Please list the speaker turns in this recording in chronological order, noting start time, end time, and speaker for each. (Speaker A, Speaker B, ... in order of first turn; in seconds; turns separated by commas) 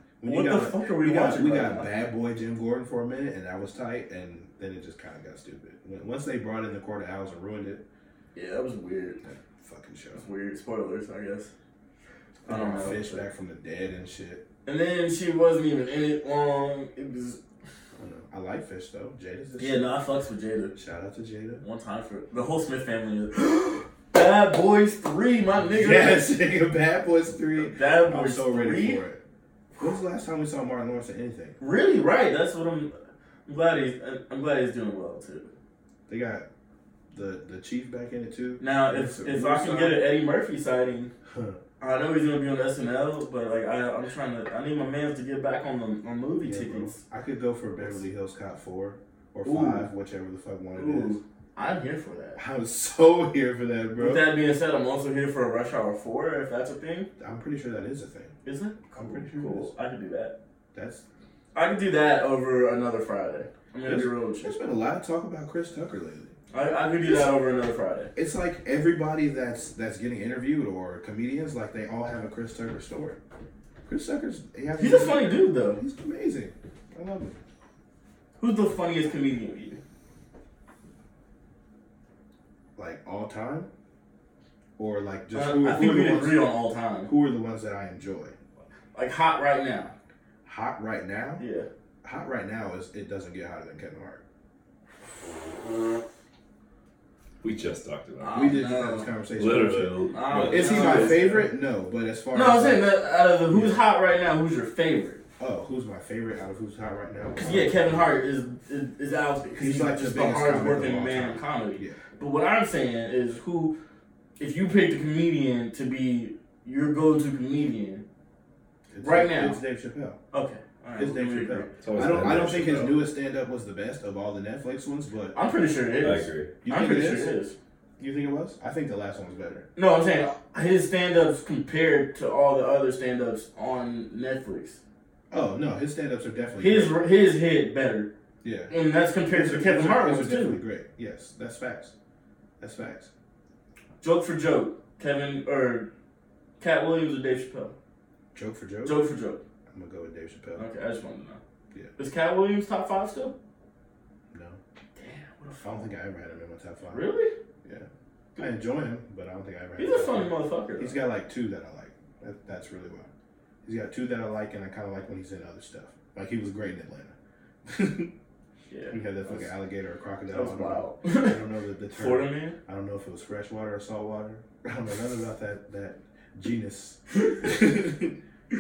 Speaker A: 0.2-7.8, Speaker B: 0.2-1.9, Speaker B: 8.3-9.2, Speaker A: 9.2-10.2, Speaker B: 10.2-11.5, Speaker A: 12.5-14.4, Speaker B: 12.5-13.2, Speaker B: 14.7-17.4, Speaker A: 18.0-20.0, Speaker B: 19.6-20.8, Speaker A: 20.8-21.6, Speaker B: 21.6-26.2, Speaker A: 25.7-29.2, Speaker B: 27.6-29.0, Speaker A: 29.8-31.6, Speaker B: 31.6-33.0, Speaker B: 33.5-35.5, Speaker A: 36.1-36.5, Speaker A: 37.1-40.0, Speaker B: 38.6-41.1, Speaker A: 41.3-41.6, Speaker B: 41.8-47.0, Speaker A: 46.4-51.2, Speaker B: 49.4-49.9, Speaker B: 50.8-52.4, Speaker A: 52.4-54.3, Speaker B: 54.0-57.1, Speaker A: 57.2-58.4, Speaker B: 58.5-60.4, Speaker A: 59.0-59.7, Speaker A: 60.7-61.0, Speaker B: 61.5-64.5, Speaker A: 63.9-66.3, Speaker B: 66.5-68.1, Speaker A: 67.0-67.3, Speaker A: 68.2-73.2, Speaker A: 73.9-77.4, Speaker B: 74.8-75.8, Speaker B: 78.4-79.8, Speaker A: 82.8-83.7, Speaker A: 84.8-86.5, Speaker B: 85.3-87.1, Speaker A: 87.1-88.3, Speaker B: 88.9-89.9, Speaker A: 90.5-91.4, Speaker B: 91.4-91.7, Speaker A: 92.0-94.2, Speaker C: 97.4-98.6, Speaker B: 98.2-99.1, Speaker A: 98.3-102.9, Speaker C: 99.4-101.3, Speaker B: 100.1-101.5, Speaker B: 102.3-105.2, Speaker A: 103.5-103.8, Speaker A: 105.4-108.1, Speaker B: 107.4-113.8, Speaker A: 109.5-112.0, Speaker B: 114.4-118.0, Speaker A: 118.9-120.2, Speaker B: 119.0-119.6, Speaker B: 120.3-121.8, Speaker A: 121.0-125.4, Speaker C: 121.8-123.0, Speaker B: 125.3-127.5, Speaker C: 126.0-126.5, Speaker A: 126.6-127.4, Speaker A: 128.0-129.7, Speaker B: 129.8-134.8, Speaker A: 135.3-137.0, Speaker B: 136.6-138.1, Speaker A: 138.4-138.7, Speaker B: 138.7-140.6, Speaker A: 139.3-141.9, Speaker A: 142.6-143.1, Speaker B: 144.0-145.9, Speaker B: 146.6-147.7, Speaker A: 148.3-149.0, Speaker B: 148.8-149.4, Speaker A: 149.7-150.7, Speaker B: 150.6-151.4, Speaker B: 152.0-153.4, Speaker A: 154.3-154.6, Speaker B: 155.0-155.9, Speaker A: 155.6-157.1, Speaker B: 156.9-157.3, Speaker A: 157.6-163.1, Speaker B: 159.8-161.0, Speaker A: 163.6-167.2, Speaker A: 167.7-168.1, Speaker B: 168.7-169.5, Speaker A: 168.9-178.2, Speaker B: 170.3-171.4, Speaker B: 171.9-172.6